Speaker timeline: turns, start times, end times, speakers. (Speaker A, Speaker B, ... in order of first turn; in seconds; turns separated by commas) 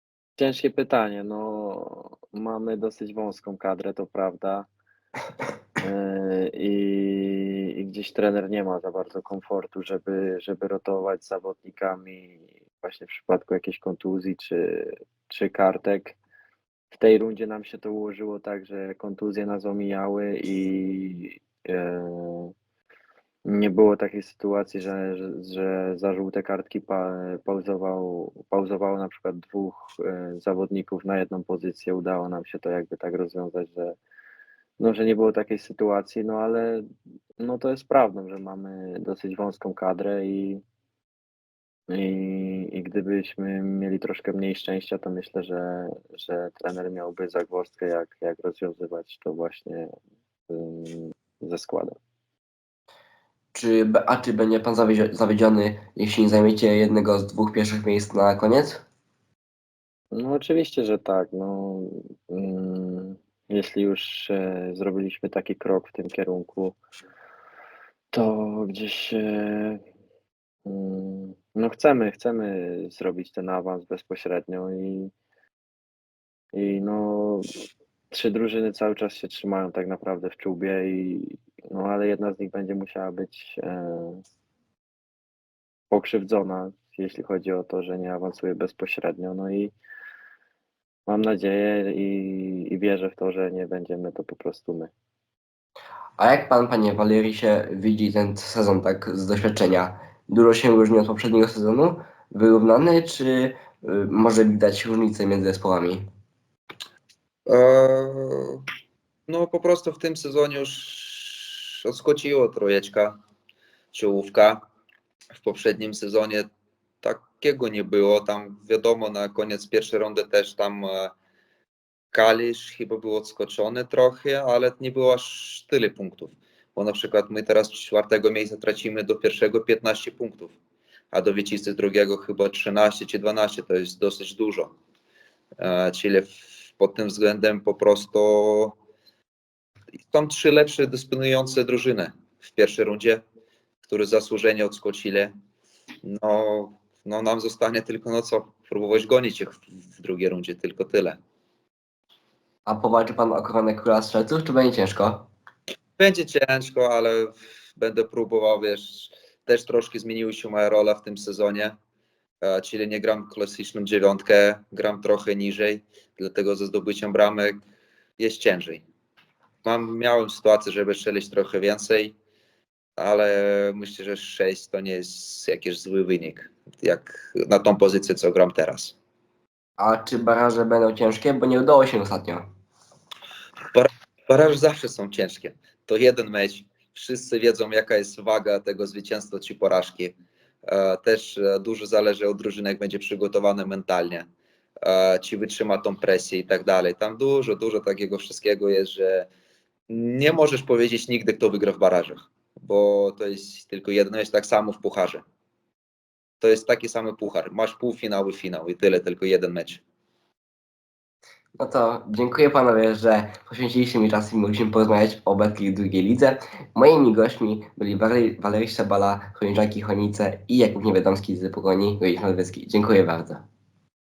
Speaker A: 0.4-4.7, Speaker A: 5.8-16.2, Speaker A: 16.9-22.5, Speaker A: 23.5-34.0, Speaker A: 34.8-36.9, Speaker A: 37.4-40.6, Speaker A: 41.9-49.9, Speaker A: 50.5-52.0, Speaker B: 53.5-58.8, Speaker A: 60.1-66.8, Speaker A: 68.1-69.8, Speaker A: 70.7-75.1, Speaker A: 76.5-84.2, Speaker A: 85.9-89.7, Speaker A: 91.1-94.9, Speaker B: 96.2-106.1, Speaker C: 107.5-108.7, Speaker C: 109.3-113.2, Speaker C: 113.9-114.6, Speaker C: 115.3-116.5, Speaker C: 117.0-121.1, Speaker C: 122.1-130.5, Speaker C: 131.1-134.7, Speaker C: 135.6-138.8, Speaker C: 140.1-143.2, Speaker C: 143.8-145.3, Speaker C: 146.0-151.2, Speaker B: 152.7-155.3, Speaker C: 156.0-161.8, Speaker C: 162.4-167.6, Speaker C: 168.2-168.8, Speaker C: 169.6-172.2, Speaker C: 173.0-179.0, Speaker B: 179.8-182.5, Speaker C: 183.7-194.3, Speaker C: 194.8-199.3, Speaker C: 199.9-205.2, Speaker C: 206.4-209.8, Speaker B: 211.6-223.4